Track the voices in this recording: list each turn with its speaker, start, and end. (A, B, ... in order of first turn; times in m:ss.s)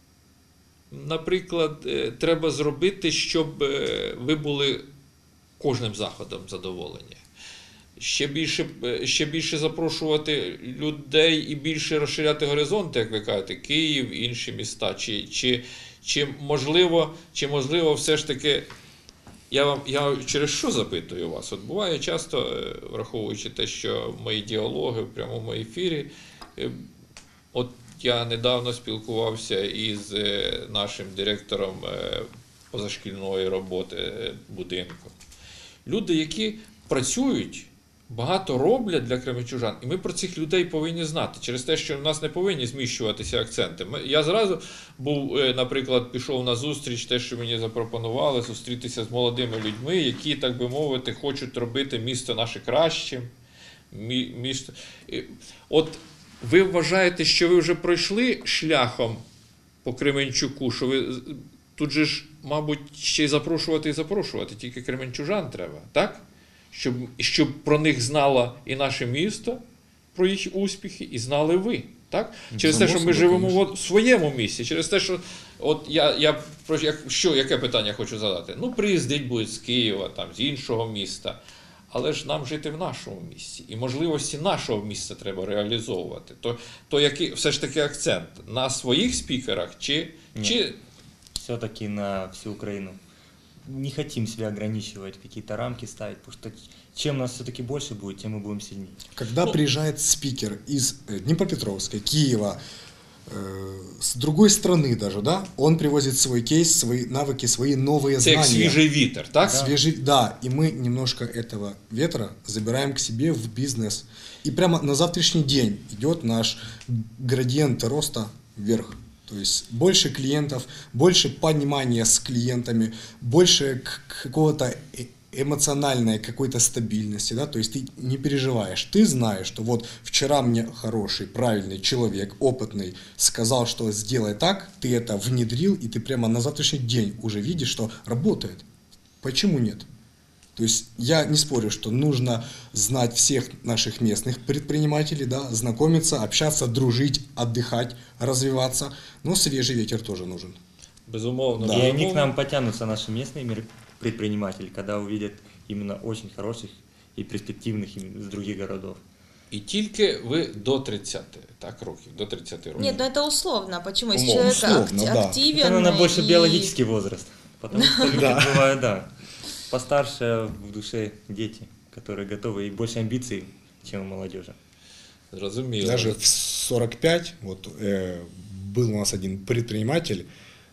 0:00.9-0:04.9 A
0:05.6-0:07.2 A
0:08.0-0:18.7 A
0:19.5-0:26.8 A
0:27.5-0:35.1 A
0:35.9-0:53.3 A
0:53.9-0:59.2 A
0:59.8-1:06.2 A
1:06.7-1:09.6 A
1:10.2-1:21.4 A
1:12.6-1:13.6 B
1:21.9-1:30.8 A
1:31.3-1:33.0 C
1:33.6-1:39.0 C
1:39.2-1:42.6 B
1:43.3-1:48.8 B
1:48.2-1:49.7 A
1:49.5-1:49.7 C
1:49.5-2:18.6 B
2:19.2-2:19.9 B
2:20.6-2:30.6 B
2:31.1-2:32.3 A
2:31.6-2:31.9 B
2:31.7-2:39.0 C
2:39.5-2:43.0 A
2:42.8-2:46.7 D
2:44.1-2:45.4 B
2:45.5-2:49.1 C
2:47.7-2:48.3 D
2:48.1-2:48.6 B
2:49.7-2:54.6 C
2:55.3-2:56.2 A
2:55.8-3:00.3 B